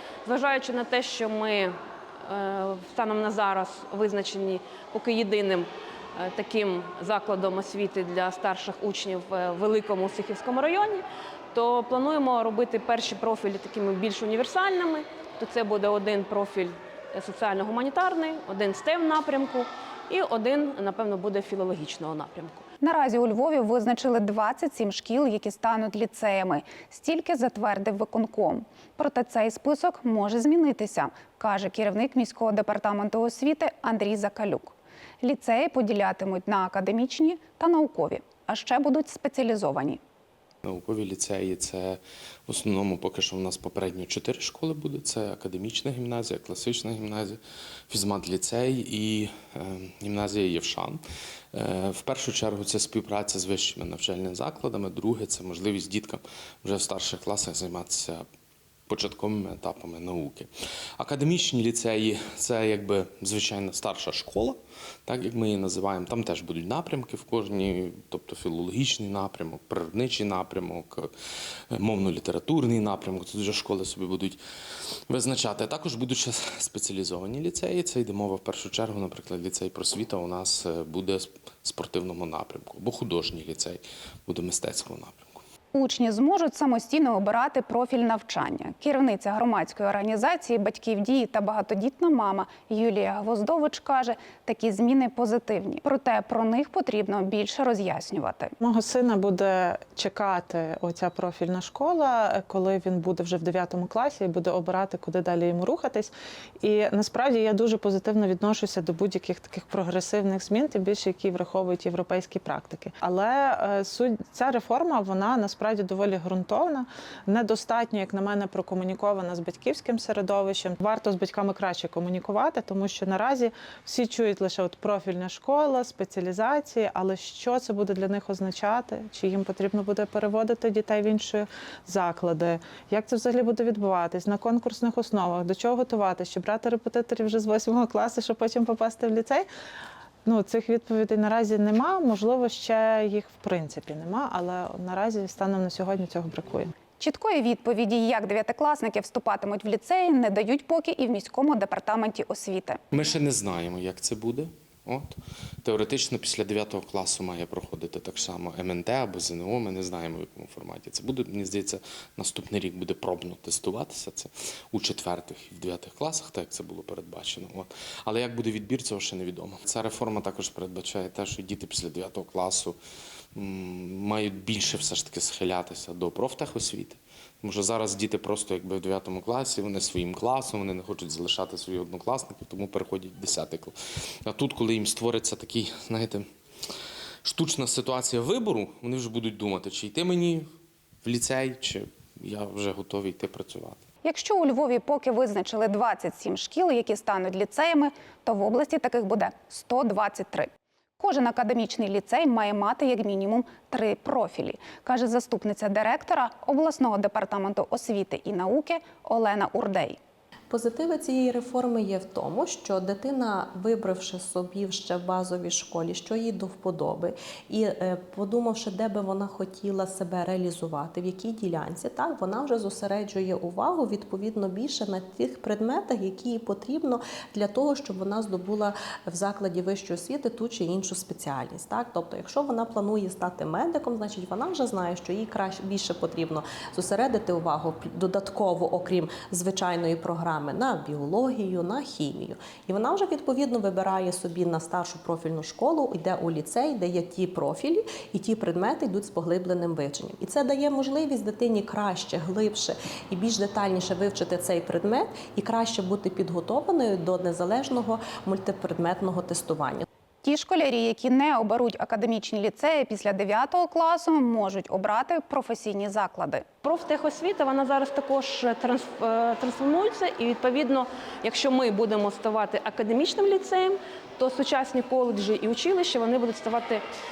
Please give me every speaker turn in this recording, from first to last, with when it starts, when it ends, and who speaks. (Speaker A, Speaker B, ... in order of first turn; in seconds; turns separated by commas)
Speaker A: 0.2-22.6, Speaker B: 22.8-40.0, Speaker C: 40.6-51.0, Speaker C: 51.5-58.2, Speaker C: 58.9-71.1, Speaker C: 71.7-74.4, Speaker C: 75.1-85.4, Speaker B: 85.7-98.5, Speaker D: 98.6-106.1, Speaker D: 106.6-139.5, Speaker D: 140.2-146.7, Speaker B: 147.0-152.8, Speaker C: 152.9-172.8, Speaker C: 173.3-183.7, Speaker C: 184.2-186.2, Speaker C: 187.2-190.5, Speaker C: 191.0-193.8, Speaker B: 194.0-210.0, Speaker E: 210.5-259.9, Speaker B: 260.2-266.5, Speaker A: 266.6-276.8